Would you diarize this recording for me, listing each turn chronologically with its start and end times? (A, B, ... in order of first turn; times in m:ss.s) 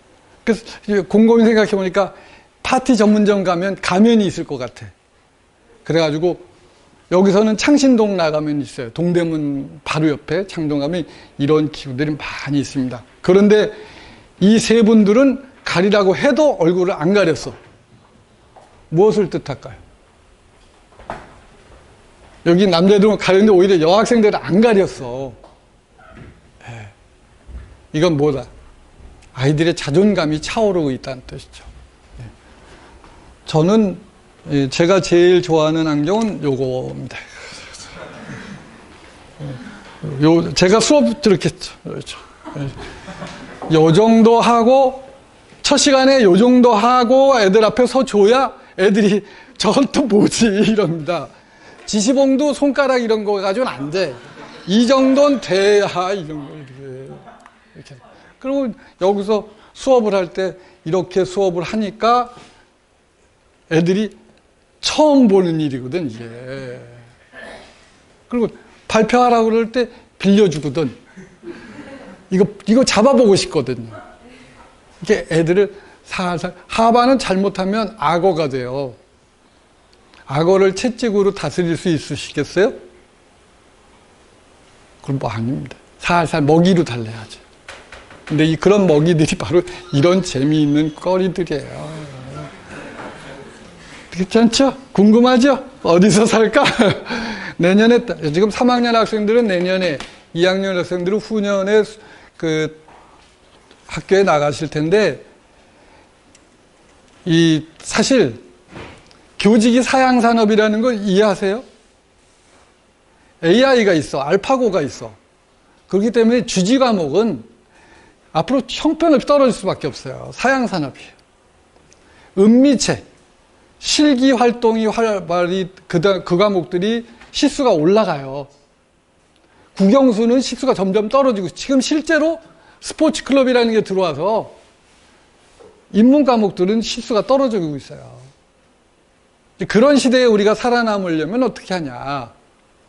0:00.4-0:04.9 A
0:05.8-0:06.5 A
0:07.1-0:13.8 A
0:14.4-0:17.6 A
0:18.9-0:19.8 A
0:22.4-0:25.4 A
0:26.6-0:26.9 A
0:27.9-0:28.5 A
0:29.3-0:32.3 A
0:33.5-0:37.4 A
0:39.4-0:42.8 A
0:43.7-0:45.1 A
0:45.6-0:51.3 A
0:51.9-0:57.2 A
0:57.8-1:02.3 A
1:03.7-1:04.2 A
1:04.8-1:07.1 A
1:08.3-1:11.0 A
1:12.3-1:14.0 A
1:15.0-1:19.0 A
1:20.3-1:22.8 A
1:25.0-1:27.4 A
1:28.3-1:32.5 A
1:34.1-1:42.8 A
1:43.9-1:45.2 A
1:47.2-1:48.4 A
1:49.4-1:51.6 A
1:53.4-1:55.2 A
1:55.9-1:57.5 A
1:58.3-2:01.2 A
2:02.4-2:03.0 A
2:03.8-2:08.5 A
2:09.8-2:14.6 A
2:15.9-2:18.3 A
2:19.6-2:22.3 A